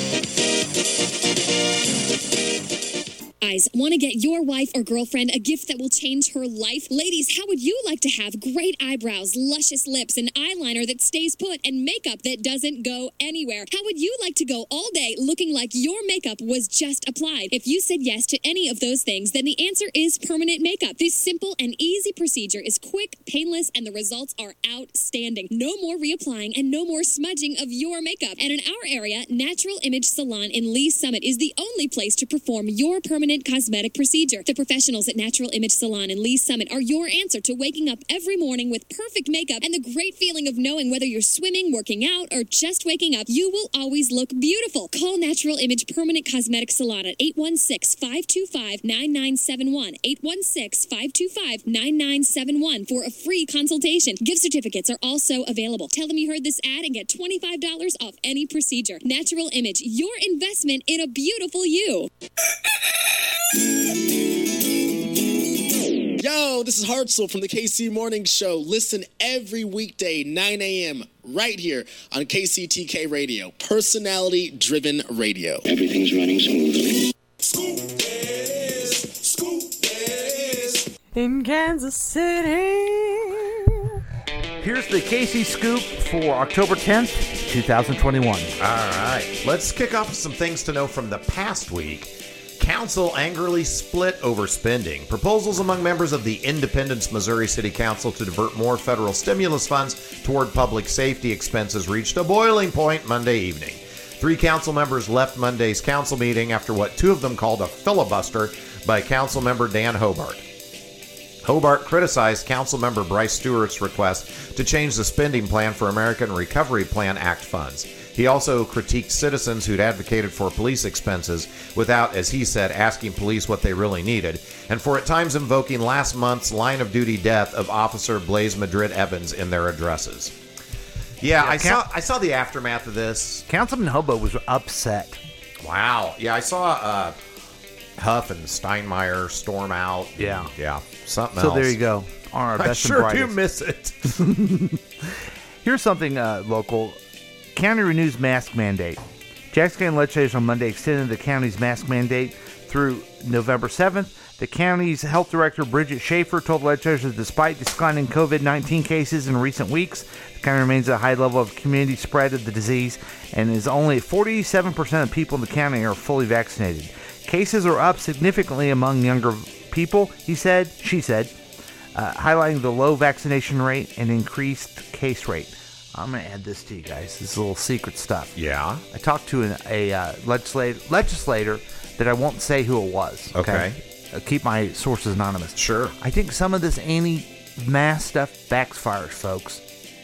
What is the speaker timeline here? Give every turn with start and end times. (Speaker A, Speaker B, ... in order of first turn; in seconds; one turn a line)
Speaker A: 3.4-62.1
Speaker B: 66.4-66.9
Speaker B: 67.6-68.0
Speaker B: 69.0-73.9
Speaker B: 74.6-75.3
Speaker B: 77.4-80.9
Speaker C: 81.1-83.4
Speaker D: 84.6-88.5
Speaker E: 88.6-110.5
Speaker E: 111.4-130.3
Speaker E: 131.2-133.5
Speaker D: 131.4-131.8
Speaker D: 133.5-135.2
Speaker E: 135.6-137.2
Speaker E: 138.0-141.8
Speaker D: 140.2-140.5
Speaker D: 141.4-143.4
Speaker E: 142.6-144.2
Speaker D: 144.1-147.0
Speaker D: 147.5-149.0
Speaker D: 149.5-171.3
Speaker D: 171.9-178.3
Speaker E: 178.4-178.8
Speaker D: 178.9-189.6
Speaker E: 183.3-183.8
Speaker E: 185.6-185.9